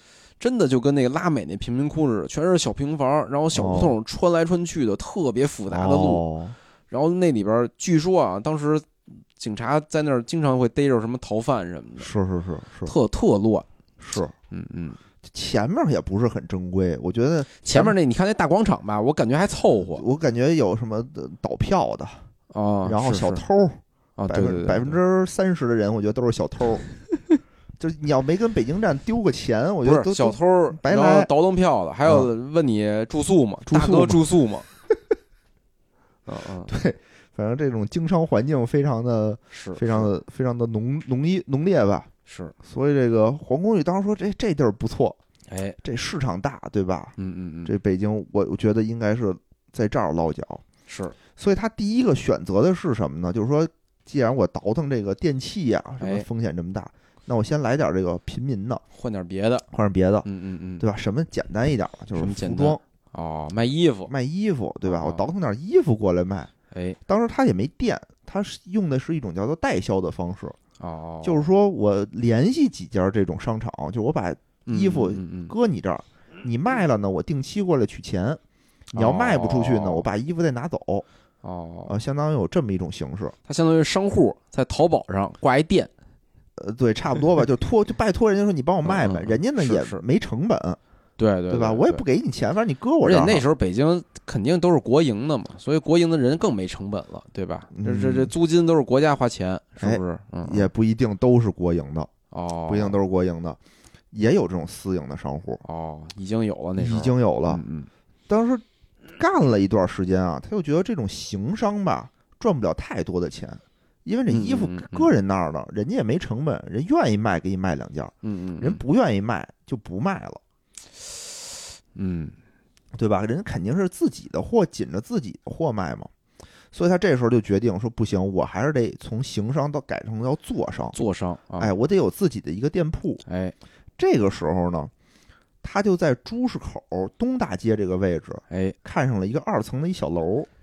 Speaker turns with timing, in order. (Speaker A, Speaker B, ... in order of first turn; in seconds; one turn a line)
Speaker A: 0.4-6.2
Speaker B: 3.5-4.0
Speaker B: 5.7-6.6
Speaker A: 6.9-12.1
Speaker B: 12.0-12.9
Speaker A: 12.8-13.7
Speaker B: 14.0-14.3
Speaker A: 14.5-15.0
Speaker B: 15.2-18.0
Speaker A: 17.6-20.1
Speaker B: 19.9-22.3
Speaker A: 22.5-23.4
Speaker B: 22.9-26.8
Speaker A: 24.2-25.0
Speaker B: 27.8-31.3
Speaker A: 29.9-34.7
Speaker B: 33.7-34.2
Speaker A: 36.3-36.7
Speaker B: 36.7-42.1
Speaker A: 39.5-40.1
Speaker A: 42.3-42.5
Speaker B: 42.6-45.2
Speaker A: 45.5-45.8
Speaker B: 45.8-47.1
Speaker A: 47.2-47.8
Speaker B: 47.7-50.6
Speaker A: 50.9-51.2
Speaker B: 51.4-58.8
Speaker A: 56.0-56.3
Speaker A: 58.9-59.7
Speaker B: 59.7-60.3
Speaker A: 60.2-60.9
Speaker B: 60.8-62.8
Speaker A: 62.2-64.1
Speaker B: 64.1-66.5
Speaker A: 64.8-65.3
Speaker A: 66.7-67.0
Speaker B: 67.1-70.6
Speaker A: 70.8-71.5
Speaker B: 71.2-78.4
Speaker A: 74.7-75.5
Speaker B: 78.9-81.0
Speaker A: 78.9-80.1
Speaker A: 81.4-81.9
Speaker B: 81.9-83.3
Speaker A: 83.5-85.9
Speaker B: 86.6-90.8
Speaker A: 88.8-90.0
Speaker A: 91.2-92.0
Speaker B: 91.5-93.5
Speaker A: 93.0-100.7
Speaker B: 97.7-98.3
Speaker B: 99.8-102.1
Speaker A: 102.3-103.0
Speaker B: 102.7-103.6
Speaker B: 104.1-105.6
Speaker A: 105.6-107.9
Speaker B: 106.8-107.6
Speaker B: 108.3-108.6
Speaker B: 109.2-120.4
Speaker A: 114.3-115.1
Speaker A: 118.2-118.8
Speaker A: 122.0-122.3
Speaker B: 123.0-126.1
Speaker B: 126.7-131.0
Speaker A: 130.9-131.7
Speaker B: 131.6-133.2
Speaker A: 133.3-133.6
Speaker B: 134.0-134.9
Speaker B: 135.6-140.5
Speaker A: 138.5-138.8